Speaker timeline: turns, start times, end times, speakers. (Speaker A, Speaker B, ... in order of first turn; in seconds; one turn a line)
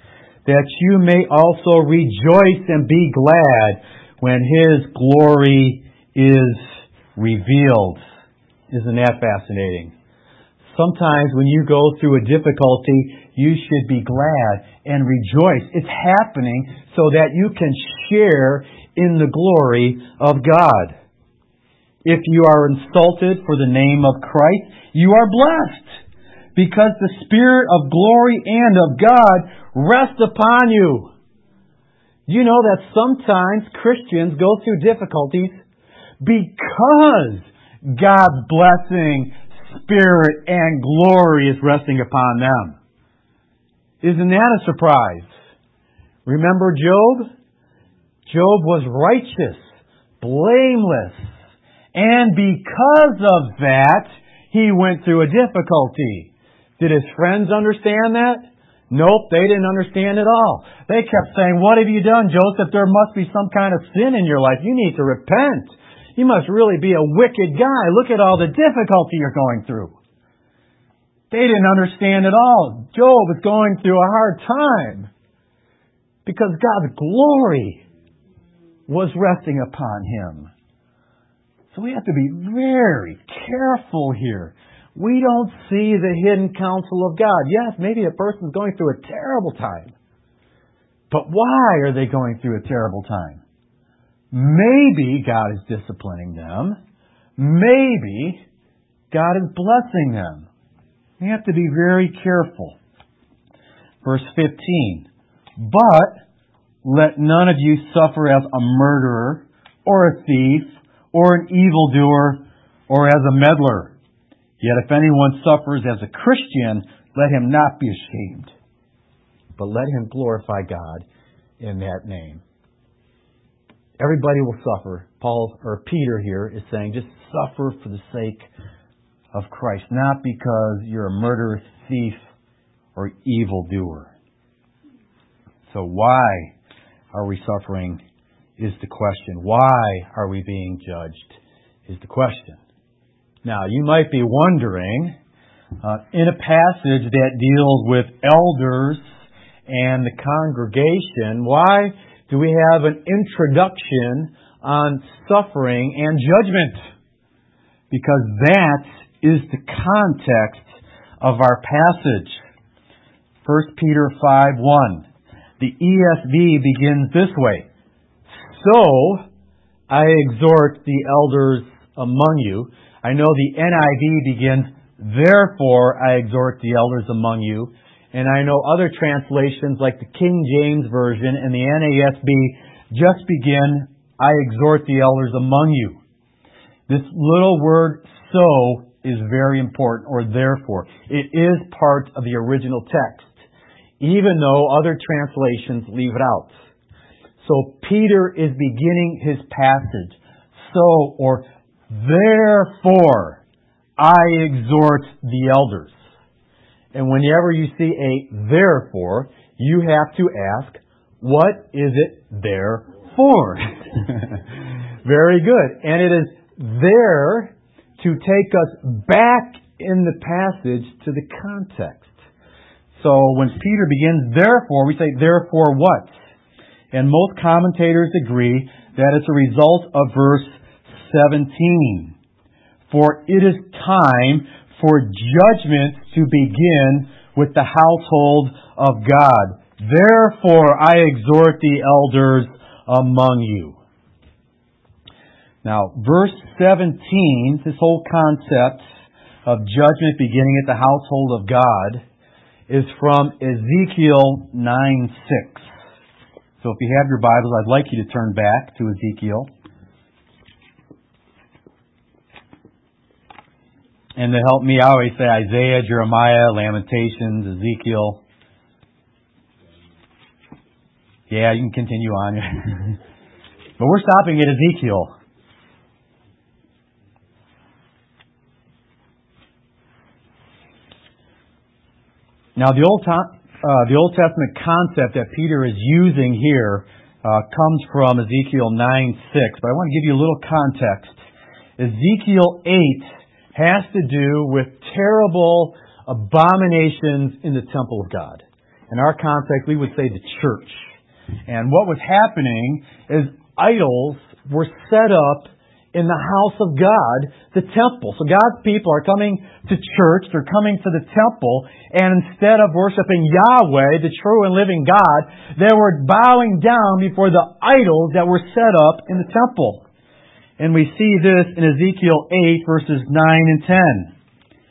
Speaker A: 0.4-8.0
Speaker A: 8.7-9.9
Speaker A: 10.7-20.9
Speaker A: 22.0-26.0
Speaker A: 26.5-31.1
Speaker A: 32.3-35.5
Speaker A: 36.2-42.8
Speaker A: 44.0-45.3
Speaker A: 46.2-47.3
Speaker A: 48.3-49.6
Speaker A: 50.2-51.3
Speaker A: 51.9-70.0
Speaker A: 71.3-75.1
Speaker A: 76.2-77.8
Speaker A: 78.9-80.5
Speaker A: 81.7-89.9
Speaker A: 91.1-93.4
Speaker A: 94.3-96.8
Speaker A: 97.4-98.4
Speaker A: 99.1-100.5
Speaker A: 101.2-102.8
Speaker A: 104.0-105.1
Speaker A: 105.6-106.2
Speaker A: 106.8-113.9
Speaker A: 114.6-118.5
Speaker A: 119.6-121.0
Speaker A: 121.6-122.4
Speaker A: 124.0-128.5
Speaker A: 129.3-132.2
Speaker A: 132.9-134.1
Speaker A: 135.7-136.5
Speaker A: 137.1-138.0
Speaker A: 138.6-142.6
Speaker A: 143.4-145.1
Speaker A: 145.8-149.0
Speaker A: 149.7-156.8
Speaker A: 157.9-160.7
Speaker A: 161.2-162.3
Speaker A: 163.4-165.1
Speaker A: 165.6-167.7
Speaker A: 168.4-169.2
Speaker A: 169.9-186.0
Speaker A: 186.9-193.4
Speaker A: 194.0-196.5
Speaker A: 197.4-203.4
Speaker A: 204.0-205.9
Speaker A: 206.9-214.4
Speaker A: 215.0-222.1
Speaker A: 222.9-226.1
Speaker A: 226.9-232.1
Speaker A: 232.9-243.8
Speaker A: 245.6-248.8
Speaker A: 249.4-252.0
Speaker A: 252.7-255.7
Speaker A: 256.6-259.5
Speaker A: 264.1-268.2
Speaker A: 271.3-273.0
Speaker A: 273.8-275.1
Speaker A: 282.6-291.2
Speaker A: 291.8-300.8
Speaker A: 301.5-319.8
Speaker A: 320.6-324.1